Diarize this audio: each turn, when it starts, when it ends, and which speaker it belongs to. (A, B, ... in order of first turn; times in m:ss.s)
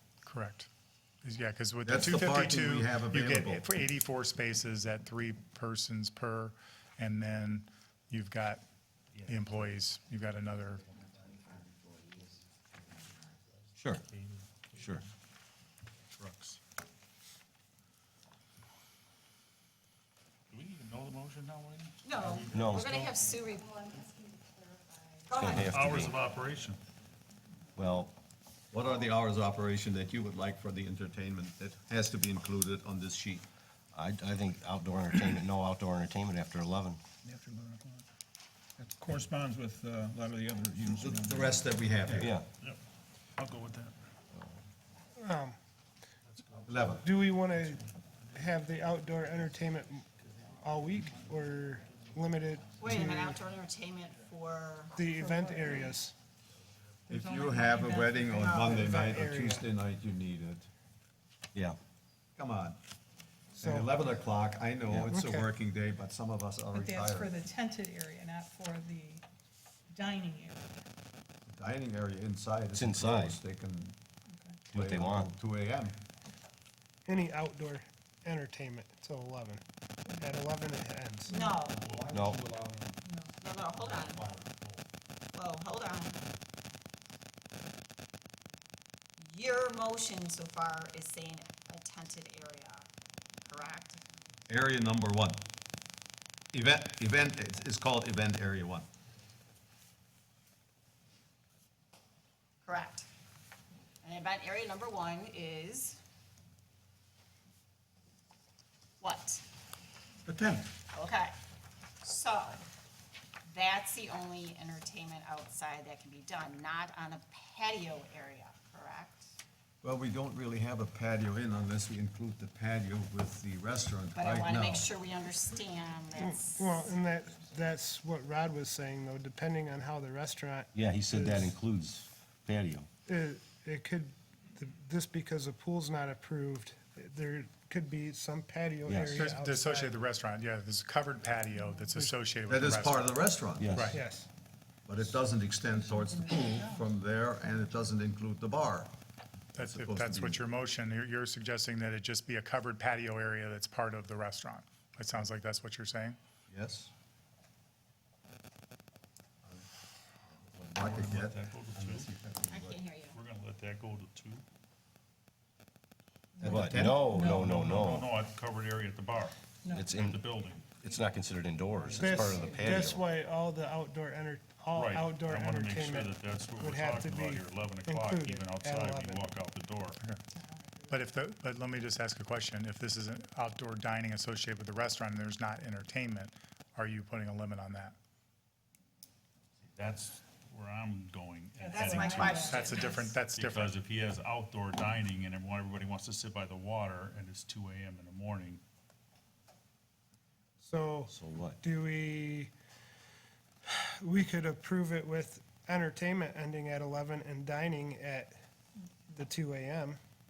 0:00.2-0:00.7 A
0:01.2-0:08.6 A
0:01.8-0:03.6 B
0:09.2-0:10.8 A
0:14.0-0:15.0 C
0:14.8-0:15.0 D
0:16.2-0:16.6 C
0:20.5-0:23.2 C
0:22.0-0:24.1 E
0:22.5-0:22.9 D
0:25.3-0:25.7 E
0:25.4-0:26.2 D
0:25.5-0:26.8 C
0:27.8-0:28.1 D
0:28.7-0:33.5 B
0:33.9-0:37.0 D
0:37.3-0:38.0 F
0:38.8-0:41.5 F
0:40.8-0:42.4 B
0:42.2-0:42.4 D
0:43.4-0:44.0 C
0:45.2-0:45.6 G
0:46.3-0:46.8 C
0:46.7-0:47.1 B
0:47.0-0:50.0 G
0:50.6-0:53.4 G
0:52.8-0:56.0 E
0:54.9-0:56.1 G
0:55.2-0:55.5 H
0:57.1-1:00.7 B
0:57.3-0:58.4 H
0:57.8-0:58.8 E
0:58.6-0:59.7 G
1:02.4-1:02.8 B
1:03.6-1:07.4 B
1:03.6-1:03.9 G
1:05.1-1:05.5 G
1:06.7-1:09.2 H
1:09.9-1:10.7 H
1:11.5-1:14.0 B
1:12.7-1:13.4 D
1:14.3-1:14.6 H
1:14.7-1:15.3 D
1:14.7-1:16.0 B
1:17.0-1:21.4 G
1:21.3-1:21.6 H
1:21.3-1:22.0 E
1:21.6-1:22.6 C
1:22.1-1:22.6 D
1:23.0-1:23.3 H
1:23.4-1:24.2 E
1:23.7-1:24.8 C
1:25.3-1:26.2 E
1:29.2-1:32.8 E
1:33.4-1:34.0 E
1:34.5-1:35.4 B
1:36.5-1:38.8 B
1:42.6-1:43.1 E
1:44.0-1:46.0 E
1:49.0-1:49.4 E
1:50.3-1:50.7 B
1:50.9-1:51.3 E
1:52.0-1:52.6 E
1:53.4-1:59.3 E
1:59.8-2:04.9 B
2:04.1-2:06.9 E
2:06.2-2:11.5 G
2:10.7-2:12.9 D
2:13.1-2:20.0 G
2:18.8-2:19.2 D
2:19.1-2:23.1 A
2:21.6-2:21.8 H
2:22.5-2:23.9 B
2:23.6-2:24.0 D
2:23.7-2:24.0 A
2:23.9-2:24.3 G
2:24.8-2:28.9 B
2:25.7-2:26.9 H
2:29.5-2:30.4 B
2:29.5-2:36.2 A
2:36.5-2:36.9 B
2:40.6-2:42.8 B
2:40.7-2:42.1 C
2:42.5-2:43.2 E
2:43.1-2:44.4 C
2:46.4-2:47.4 H
2:46.4-2:48.1 D
2:46.4-2:47.0 B
2:47.1-2:50.7 C
2:49.6-2:49.9 H
2:49.7-2:53.0 D
2:51.8-2:52.2 C
2:51.9-2:59.3 G
2:52.4-2:52.8 E
2:54.7-3:00.0 C
3:00.3-3:01.1 H
3:00.9-3:08.0 A
3:09.7-3:18.6 C
3:11.6-3:13.0 H
3:11.6-3:13.1 E
3:12.5-3:13.7 A
3:20.6-3:22.5 G
3:21.1-3:21.6 D
3:23.7-3:28.3 G
3:29.1-3:30.0 G